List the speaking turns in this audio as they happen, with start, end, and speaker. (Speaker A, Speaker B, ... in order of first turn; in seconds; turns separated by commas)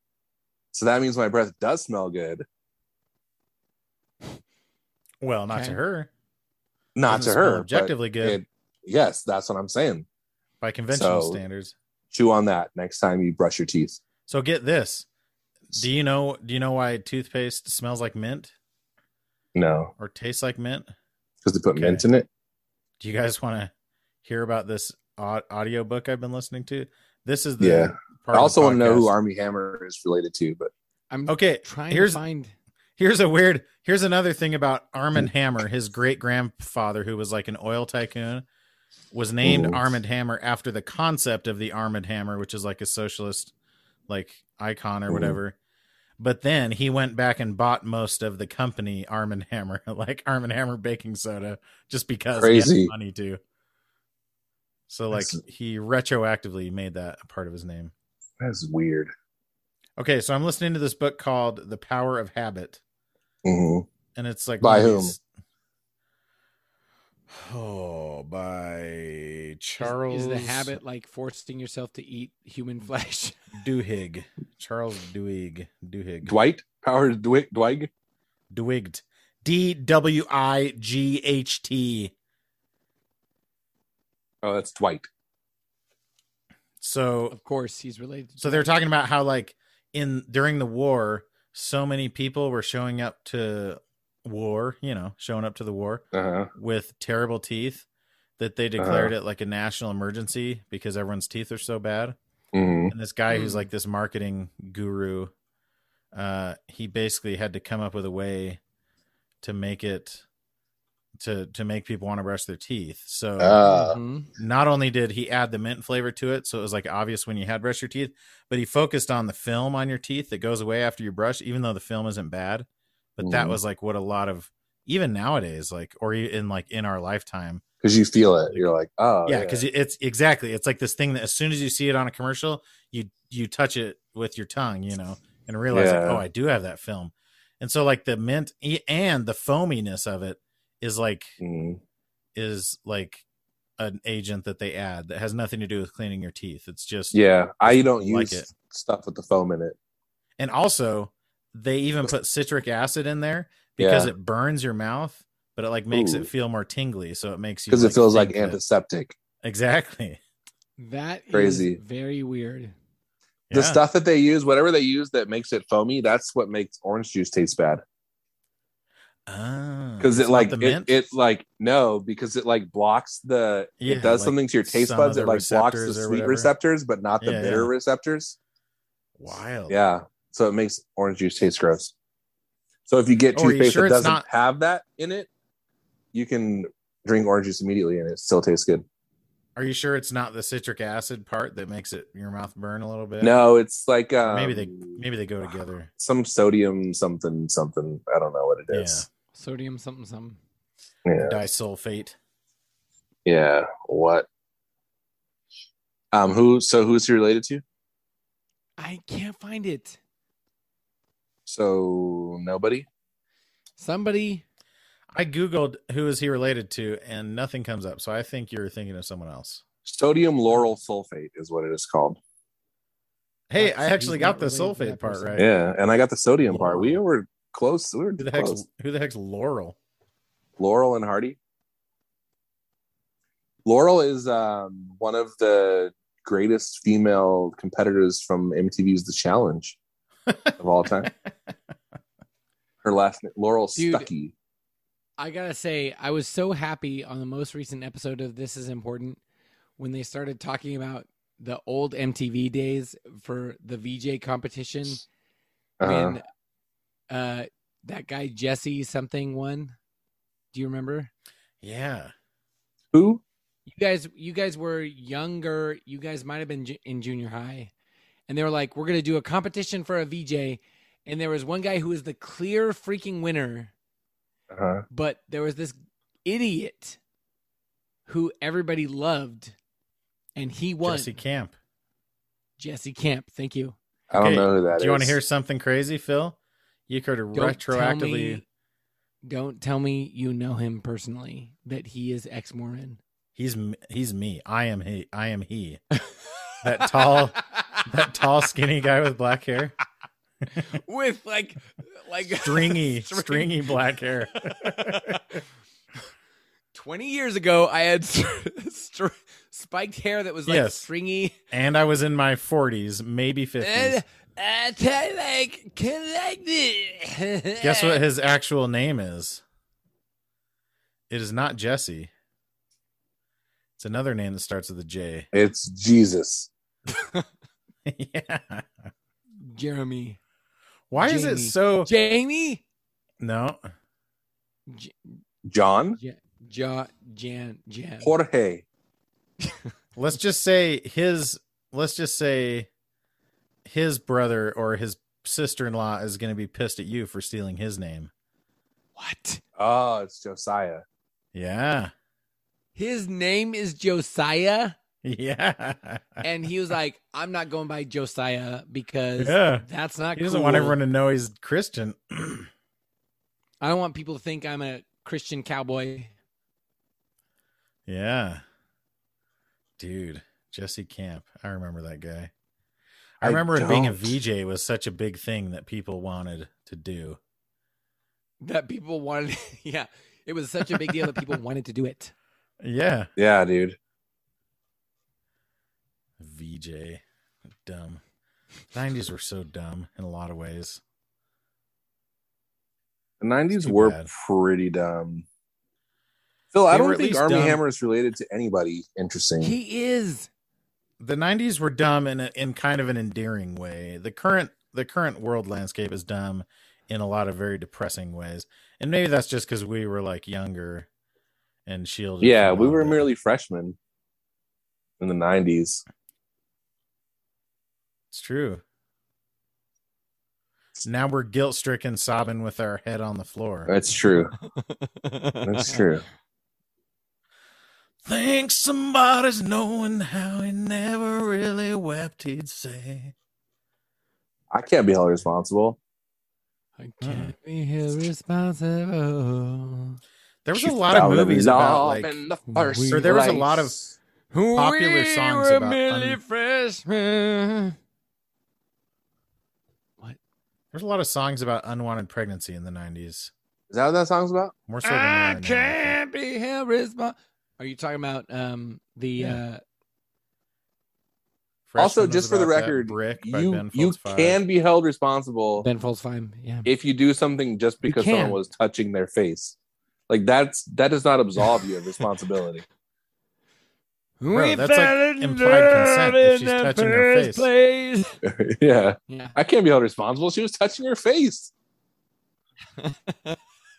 Speaker A: 0.7-2.4, Speaker B: 5.2-6.1, Speaker C: 5.5-5.8, Speaker A: 7.0-10.1, Speaker B: 7.1-8.4, Speaker B: 10.6-11.8, Speaker A: 10.9-11.4, Speaker A: 12.1-14.0, Speaker B: 14.3-15.1, Speaker B: 15.7-18.5, Speaker A: 19.6-19.9, Speaker B: 20.0-20.9, Speaker A: 21.4-22.3, Speaker B: 21.8-22.1, Speaker B: 23.0-23.7, Speaker B: 24.2-29.1, Speaker A: 27.6-30.7, Speaker C: 31.1-32.5, Speaker B: 31.3-32.2, Speaker B: 33.0-38.5, Speaker B: 39.1-43.5, Speaker A: 39.4-39.8, Speaker B: 44.1-45.6, Speaker A: 45.1-45.4, Speaker B: 46.2-53.4, Speaker A: 52.4-52.9, Speaker B: 54.9-57.9, Speaker A: 55.1-55.4, Speaker A: 58.4-59.1, Speaker B: 60.0-62.8, Speaker A: 63.4-63.9, Speaker B: 64.2-65.2, Speaker A: 64.6-65.1, Speaker B: 67.3-70.8, Speaker C: 69.8-73.4, Speaker B: 73.6-76.3, Speaker A: 76.3-77.9, Speaker B: 78.5-82.1, Speaker A: 84.4-85.1, Speaker B: 86.8-87.3, Speaker C: 87.3-88.7, Speaker B: 88.4-97.9, Speaker A: 96.1-96.5, Speaker B: 98.4-102.2, Speaker A: 98.8-99.1, Speaker A: 102.5-102.9, Speaker B: 102.9-105.3, Speaker C: 103.3-103.7, Speaker B: 106.1-108.6, Speaker B: 109.4-110.2, Speaker B: 111.2-113.7, Speaker A: 113.4-114.0, Speaker C: 113.6-114.3, Speaker B: 114.4-127.6, Speaker A: 123.2-123.6, Speaker A: 127.8-129.7, Speaker B: 129.3-141.4, Speaker A: 135.7-136.2, Speaker A: 141.4-141.8, Speaker B: 142.3-143.2, Speaker B: 143.8-148.5, Speaker A: 147.1-149.8, Speaker B: 150.4-158.6, Speaker A: 153.8-154.1, Speaker A: 155.9-156.3, Speaker A: 157.7-159.2, Speaker B: 159.4-160.2, Speaker C: 160.8-162.7, Speaker A: 161.3-161.8, Speaker B: 163.5-163.8, Speaker A: 163.5-167.8, Speaker B: 169.3-171.0, Speaker A: 170.0-178.4, Speaker B: 173.8-176.5, Speaker B: 177.2-177.7, Speaker B: 179.2-179.8, Speaker A: 179.7-181.9, Speaker A: 182.9-185.3, Speaker B: 183.3-184.2, Speaker A: 186.1-188.8, Speaker B: 189.6-193.4, Speaker A: 193.2-195.0, Speaker B: 194.2-195.9, Speaker A: 196.0-199.1, Speaker B: 198.7-199.1, Speaker C: 199.3-200.4, Speaker A: 201.1-201.4, Speaker B: 201.2-202.2, Speaker A: 203.3-204.3, Speaker A: 206.1-207.6, Speaker C: 208.8-210.0, Speaker A: 211.5-212.9, Speaker C: 213.8-214.4, Speaker B: 215.1-219.6, Speaker A: 219.8-222.2, Speaker B: 223.5-225.5, Speaker C: 223.6-225.4, Speaker A: 225.4-228.6, Speaker B: 226.5-227.0, Speaker B: 228.2-229.8, Speaker A: 230.6-231.4, Speaker A: 233.7-239.8, Speaker B: 240.3-240.5, Speaker A: 240.6-241.1, Speaker A: 242.8-244.3, Speaker C: 243.8-244.1, Speaker C: 245.2-249.2, Speaker C: 249.8-255.0, Speaker A: 255.8-256.2, Speaker C: 255.8-256.2, Speaker C: 257.1-259.8, Speaker C: 260.5-261.1, Speaker B: 261.6-262.1, Speaker A: 262.9-263.2, Speaker C: 263.7-267.7, Speaker C: 268.3-273.7, Speaker A: 274.5-274.9, Speaker C: 274.9-277.0, Speaker C: 278.1-279.6, Speaker C: 280.4-281.1, Speaker B: 280.8-281.6, Speaker C: 282.6-283.8, Speaker A: 284.1-285.2, Speaker B: 284.1-286.4, Speaker B: 286.9-288.4, Speaker C: 287.3-288.4, Speaker C: 289.2-293.0, Speaker B: 293.4-295.8, Speaker C: 296.0-297.9, Speaker B: 296.6-299.8, Speaker C: 300.6-303.7, Speaker B: 302.4-305.2, Speaker C: 304.5-305.2, Speaker C: 306.7-311.4, Speaker B: 310.5-310.9, Speaker B: 311.5-314.0, Speaker C: 313.6-318.0, Speaker B: 317.6-319.4, Speaker B: 321.1-322.1, Speaker B: 323.8-325.3, Speaker A: 325.3-326.5, Speaker C: 326.9-327.2, Speaker B: 327.9-328.9, Speaker C: 329.4-330.2, Speaker B: 330.9-331.9, Speaker C: 331.0-332.6, Speaker B: 333.2-333.6, Speaker C: 334.7-335.2, Speaker A: 335.5-336.0, Speaker C: 336.0-338.1, Speaker A: 338.0-338.6, Speaker C: 339.4-339.7, Speaker B: 340.0-342.7, Speaker B: 343.6-348.1, Speaker C: 349.0-349.4, Speaker A: 349.6-350.8, Speaker B: 351.3-351.9, Speaker C: 352.8-354.8, Speaker B: 355.0-356.2, Speaker C: 356.2-360.8, Speaker B: 359.2-362.5, Speaker C: 363.6-366.1, Speaker B: 367.9-368.4, Speaker B: 369.8-372.3, Speaker B: 373.2-377.2, Speaker A: 373.2-374.1, Speaker C: 378.4-382.1, Speaker B: 382.6-383.1, Speaker A: 383.2-383.8, Speaker B: 386.2-387.0, Speaker B: 387.6-388.0, Speaker B: 388.7-390.8, Speaker A: 393.2-395.3, Speaker B: 393.5-394.1, Speaker A: 396.5-399.5, Speaker B: 396.7-397.6, Speaker C: 399.4-400.3, Speaker B: 401.0-410.9, Speaker B: 411.7-413.1, Speaker A: 412.2-413.8, Speaker A: 415.0-415.8, Speaker B: 418.1-418.6, Speaker B: 420.8-423.7, Speaker A: 423.7-424.3, Speaker C: 424.6-425.9, Speaker A: 425.4-426.0, Speaker B: 428.0-433.1, Speaker A: 434.5-435.8, Speaker C: 436.8-440.0, Speaker B: 437.0-437.3, Speaker B: 440.4-442.2, Speaker A: 440.6-443.9, Speaker C: 442.5-443.5, Speaker B: 442.9-443.8, Speaker C: 444.3-447.8, Speaker B: 444.6-446.2, Speaker B: 450.7-453.3, Speaker A: 453.7-454.5, Speaker B: 454.7-456.0, Speaker C: 454.8-459.6, Speaker B: 461.7-464.4, Speaker A: 461.8-465.7, Speaker C: 465.6-466.7, Speaker A: 466.6-469.6, Speaker C: 467.8-468.4, Speaker A: 470.1-472.6, Speaker C: 471.4-471.7, Speaker C: 474.2-478.1, Speaker B: 474.3-477.5, Speaker A: 478.2-481.5, Speaker C: 479.1-479.4, Speaker C: 482.8-483.4